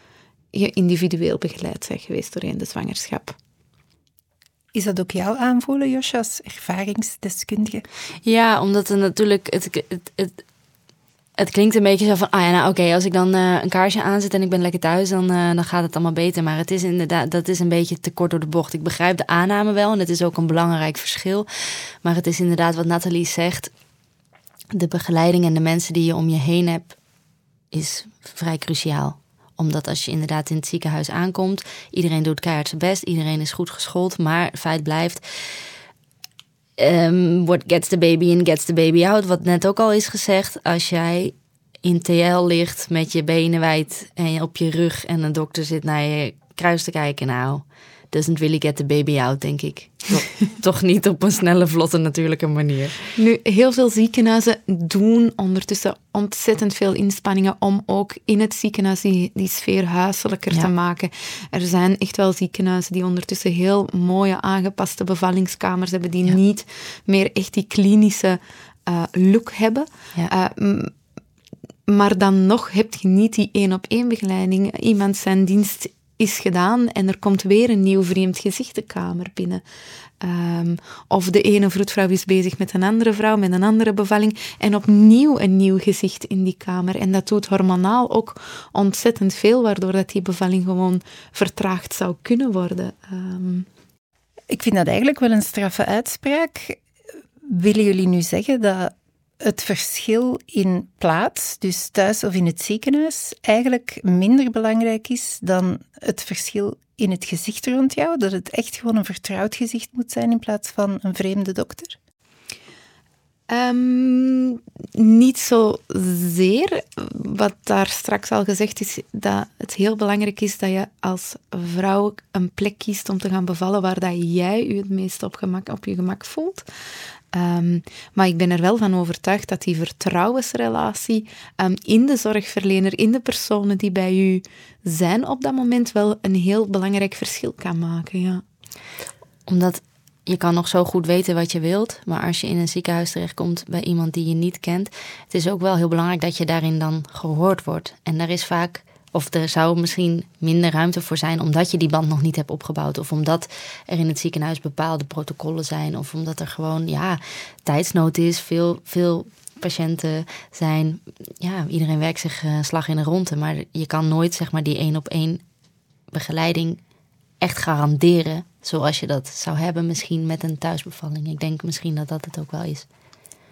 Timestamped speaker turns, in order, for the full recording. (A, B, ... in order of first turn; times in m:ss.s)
0:00.5-0:03.4 A
0:04.7-0:07.8 B
0:08.2-0:10.4 C
0:11.4-0:21.5 C
0:22.0-0:23.7 C
0:24.7-0:27.0 C
0:27.7-0:35.2 C
0:36.8-0:53.0 C
0:53.2-1:10.9 A
1:11.9-1:19.6 A
1:20.2-1:33.7 A
1:34.5-1:36.8 B
1:37.5-1:52.0 B
1:53.5-2:06.7 A
2:07.3-2:18.4 A
2:19.5-2:45.4 C
2:46.1-2:46.8 C
2:47.4-2:52.9 C